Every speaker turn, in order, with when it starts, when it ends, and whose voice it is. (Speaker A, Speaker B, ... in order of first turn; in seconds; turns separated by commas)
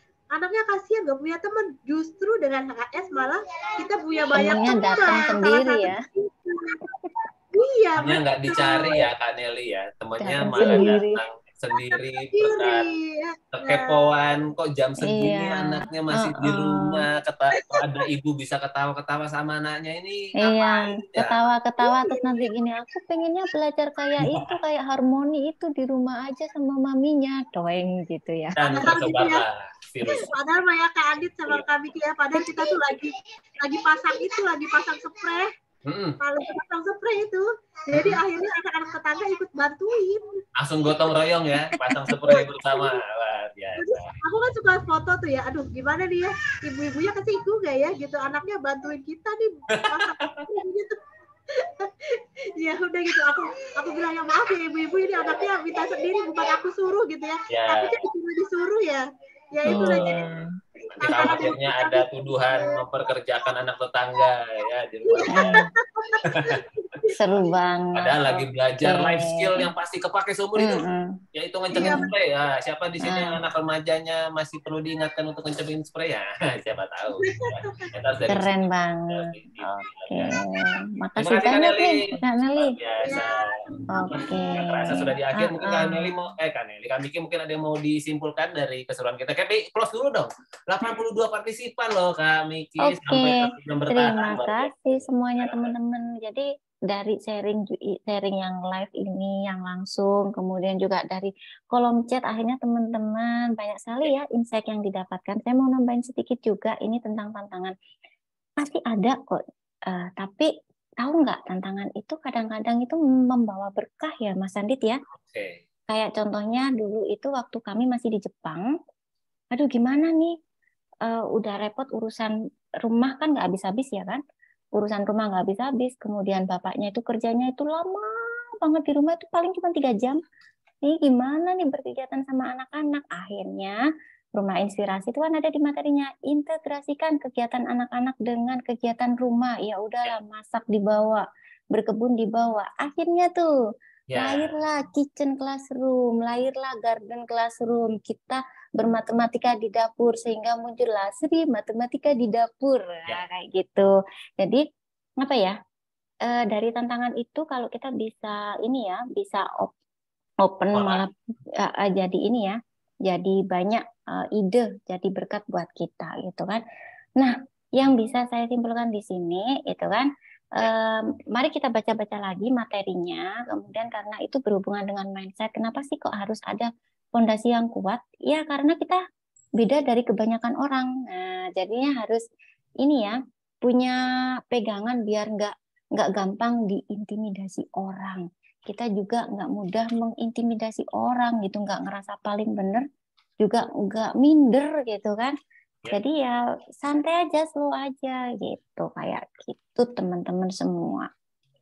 Speaker A: 0.3-9.1, Speaker B: 4.3-6.0, Speaker C: 8.0-12.9, Speaker B: 10.2-11.2, Speaker A: 10.6-10.9, Speaker A: 11.7-14.1, Speaker C: 13.5-21.4, Speaker B: 15.0-17.0, Speaker B: 20.4-29.0, Speaker A: 21.9-22.3, Speaker C: 24.2-24.5, Speaker C: 28.6-30.3, Speaker A: 28.8-29.4, Speaker A: 30.1-35.5, Speaker C: 35.9-36.2, Speaker A: 36.2-40.4, Speaker C: 37.9-38.2, Speaker C: 40.6-44.1, Speaker A: 43.8-51.0, Speaker C: 49.8-50.3, Speaker A: 51.5-60.3, Speaker C: 57.5-58.0, Speaker C: 59.7-65.5, Speaker B: 59.7-60.4, Speaker A: 61.0-62.8, Speaker A: 65.1-67.2, Speaker B: 65.3-65.7, Speaker C: 66.3-66.6, Speaker B: 67.1-68.3, Speaker C: 68.0-70.8, Speaker B: 68.8-69.7, Speaker B: 70.6-71.2, Speaker C: 71.3-78.6, Speaker A: 71.7-72.1, Speaker B: 71.8-72.1, Speaker B: 73.0-73.4, Speaker A: 77.2-77.8, Speaker B: 78.3-82.8, Speaker C: 79.1-80.3, Speaker C: 81.2-82.0, Speaker C: 82.5-83.3, Speaker A: 83.0-84.2, Speaker B: 83.9-86.3, Speaker C: 84.1-95.7, Speaker B: 92.8-107.7, Speaker B: 108.6-110.5, Speaker B: 111.0-115.0, Speaker C: 115.2-115.6, Speaker B: 115.9-118.7, Speaker B: 119.5-120.4, Speaker B: 121.1-124.2, Speaker B: 124.8-130.2, Speaker B: 130.8-133.8, Speaker B: 134.4-143.5, Speaker C: 144.1-144.6, Speaker B: 144.2-154.6, Speaker B: 155.2-155.6, Speaker B: 156.3-159.7, Speaker B: 160.4-162.6, Speaker C: 160.7-161.0, Speaker B: 163.1-166.6, Speaker B: 167.2-179.0, Speaker B: 179.6-182.2, Speaker B: 182.8-184.0, Speaker B: 184.5-192.8, Speaker B: 193.4-195.4, Speaker B: 195.9-201.1